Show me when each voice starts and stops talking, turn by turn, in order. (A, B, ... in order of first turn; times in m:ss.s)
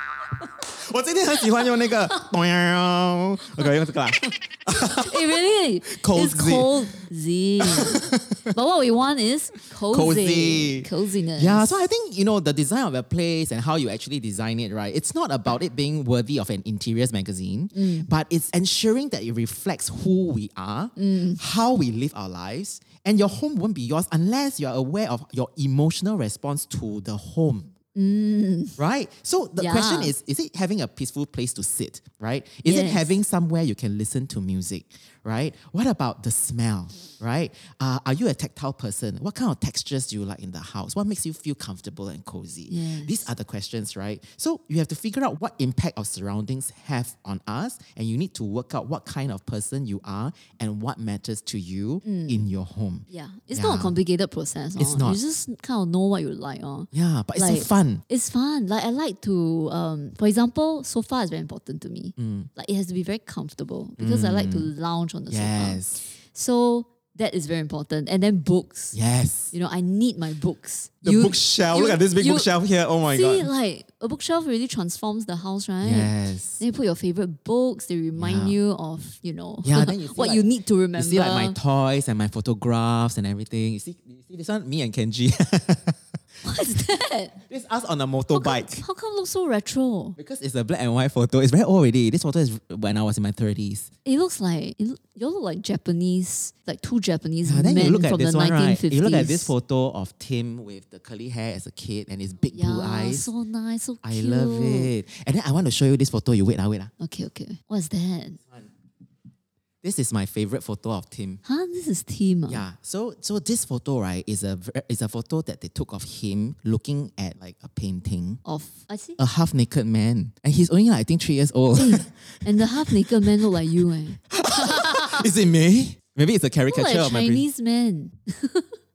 0:00.6-0:05.3 A
0:04.8-0:11.8 B
0:05.9-0:06.8 A
0:07.6-0:08.4 A
0:09.9-0:27.7 A
0:17.7-0:18.1 B
0:21.0-0:21.4 B
0:28.0-0:28.8 B
0:28.8-0:54.0 A
0:29.6-0:30.1 B
0:32.6-0:33.1 B
0:42.7-0:43.3 B
0:52.0-0:52.4 B
0:53.1-1:09.0 B
0:54.8-0:55.2 A
0:56.9-0:58.0 A
1:02.2-1:02.5 A
1:04.0-1:04.7 A
1:05.3-1:06.0 A
1:08.9-1:09.5 A
1:09.5-1:12.5 B
1:11.0-1:13.5 A
1:13.1-1:21.6 B
1:15.8-1:16.6 A
1:18.2-1:18.6 A
1:19.6-1:26.0 A
1:26.4-1:27.4 B
1:27.5-1:28.8 A
1:28.3-1:30.2 B
1:30.2-1:33.9 A
1:34.0-1:39.5 B
1:37.4-1:43.3 A
1:42.5-1:44.9 B
1:44.0-1:46.9 A
1:47.0-1:48.4 B
1:49.8-1:51.4 A
1:51.4-1:52.6 B
1:52.5-1:58.4 A
1:58.4-1:59.2 B
1:59.2-2:03.0 A
2:01.8-2:05.3 B
2:04.3-2:07.4 A
2:06.7-2:08.7 B